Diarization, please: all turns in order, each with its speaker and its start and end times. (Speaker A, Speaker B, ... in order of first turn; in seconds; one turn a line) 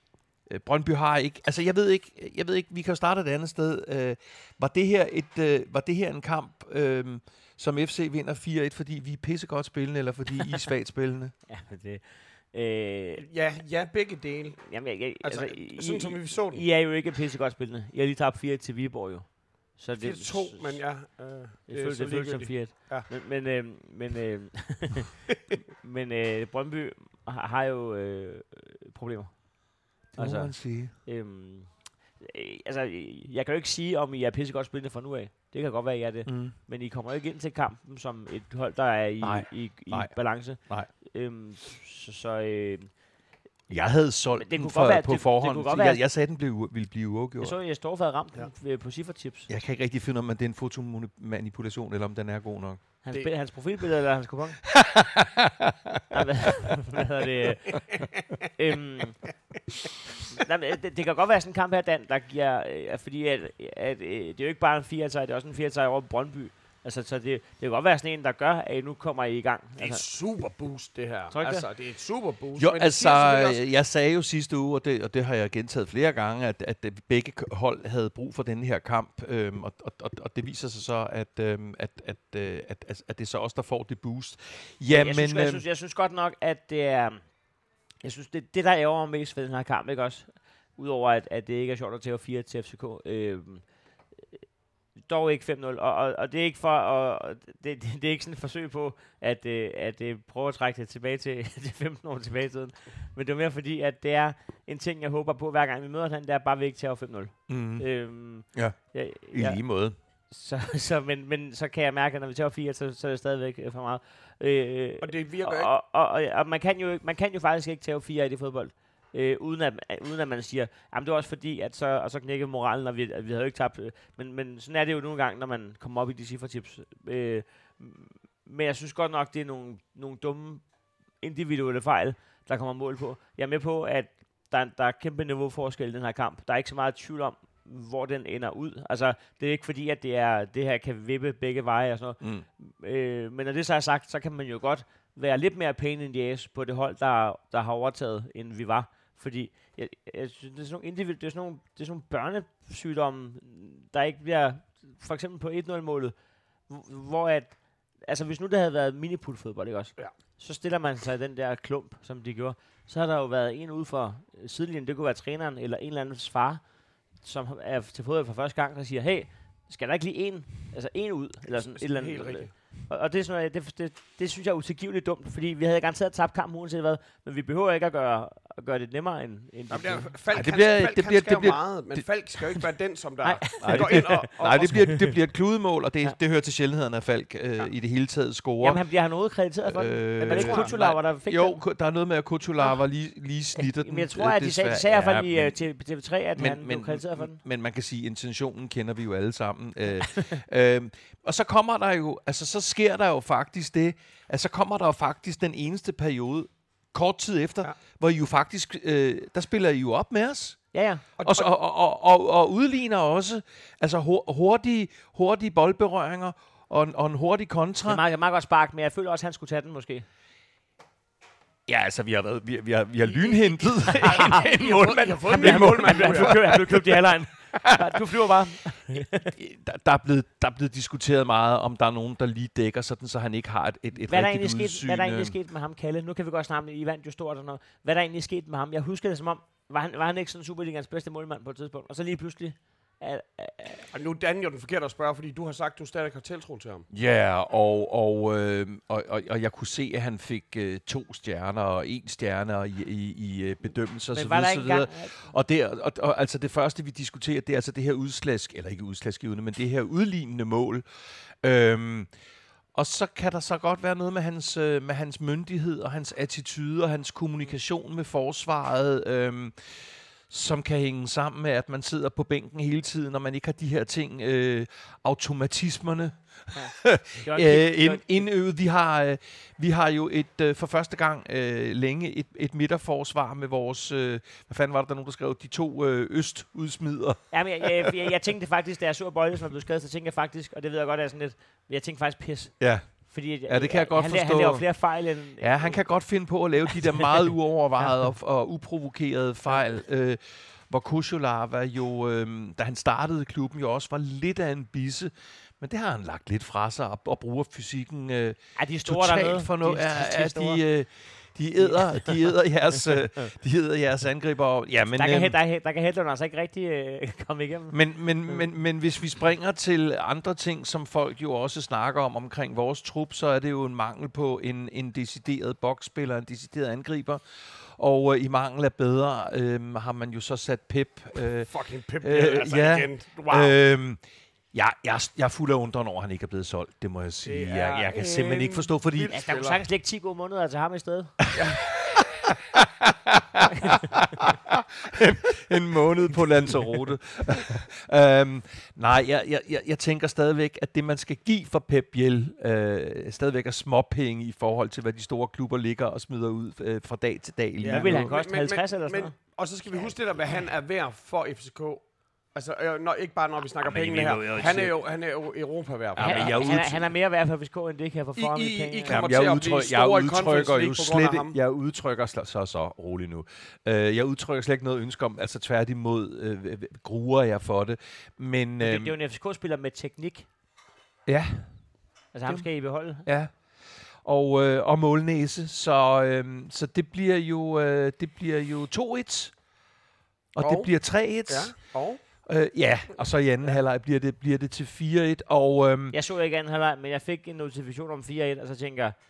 Speaker A: 0.5-11.3
Speaker B: 11.5-13.2
Speaker C: 13.2-16.6
Speaker B: 14.7-20.8
Speaker C: 20.0-23.1
Speaker B: 21.7-25.2
Speaker B: 25.8-42.9
Speaker A: 30.2-30.9
Speaker A: 36.2-36.5
Speaker A: 39.2-40.9
Speaker A: 43.7-47.5
Speaker B: 44.4-46.0
Speaker B: 47.4-49.5
Speaker A: 49.5-52.8
Speaker B: 53.0-54.6
Speaker A: 54.8-56.2
Speaker B: 56.1-59.2
Speaker B: 60.3-70.0
Speaker C: 69.8-73.6
Speaker B: 71.3-71.6
Speaker A: 72.6-85.6
Speaker B: 84.9-87.2
Speaker B: 88.0-93.6
Speaker B: 95.0-109.6
Speaker A: 107.5-110.0
Speaker B: 110.3-130.6
Speaker C: 115.0-115.7
Speaker B: 131.2-156.1
Speaker A: 142.2-142.4
Speaker B: 156.7-166.6
Speaker B: 167.2-180.1
Speaker C: 171.7-172.5
Speaker C: 179.7-185.1
Speaker A: 180.3-182.1
Speaker B: 183.2-184.9
Speaker A: 183.6-188.8
Speaker B: 188.6-191.6
Speaker A: 189.7-195.6
Speaker C: 190.2-190.8
Speaker B: 193.7-197.4
Speaker A: 196.3-218.0
Speaker B: 210.7-211.0
Speaker C: 211.2-211.5
Speaker B: 217.9-220.1
Speaker A: 221.7-227.0
Speaker C: 223.1-226.6
Speaker B: 223.8-229.3
Speaker A: 227.6-228.0
Speaker A: 229.2-235.3
Speaker B: 234.1-243.9
Speaker C: 243.9-246.9
Speaker A: 246.9-260.8
Speaker B: 254.1-255.2
Speaker A: 261.4-262.1
Speaker A: 262.7-287.9
Speaker B: 276.6-278.2
Speaker B: 287.3-295.8
Speaker A: 292.6-315.4
Speaker B: 308.6-310.6
Speaker B: 311.6-312.3
Speaker B: 314.9-318.4
Speaker A: 317.7-334.0
Speaker C: 331.5-333.6
Speaker A: 334.5-339.1
Speaker C: 337.2-339.6
Speaker B: 339.1-341.1
Speaker C: 341.3-341.8
Speaker A: 342.5-358.1
Speaker B: 357.6-359.1
Speaker C: 357.7-366.4
Speaker A: 363.6-364.8
Speaker A: 365.9-366.9
Speaker B: 366.0-369.2
Speaker C: 368.1-371.4
Speaker A: 368.9-378.9
Speaker B: 378.6-380.3
Speaker A: 381.1-389.4
Speaker B: 382.1-383.1
Speaker A: 390.3-395.9
Speaker C: 390.4-392.0
Speaker B: 395.9-398.9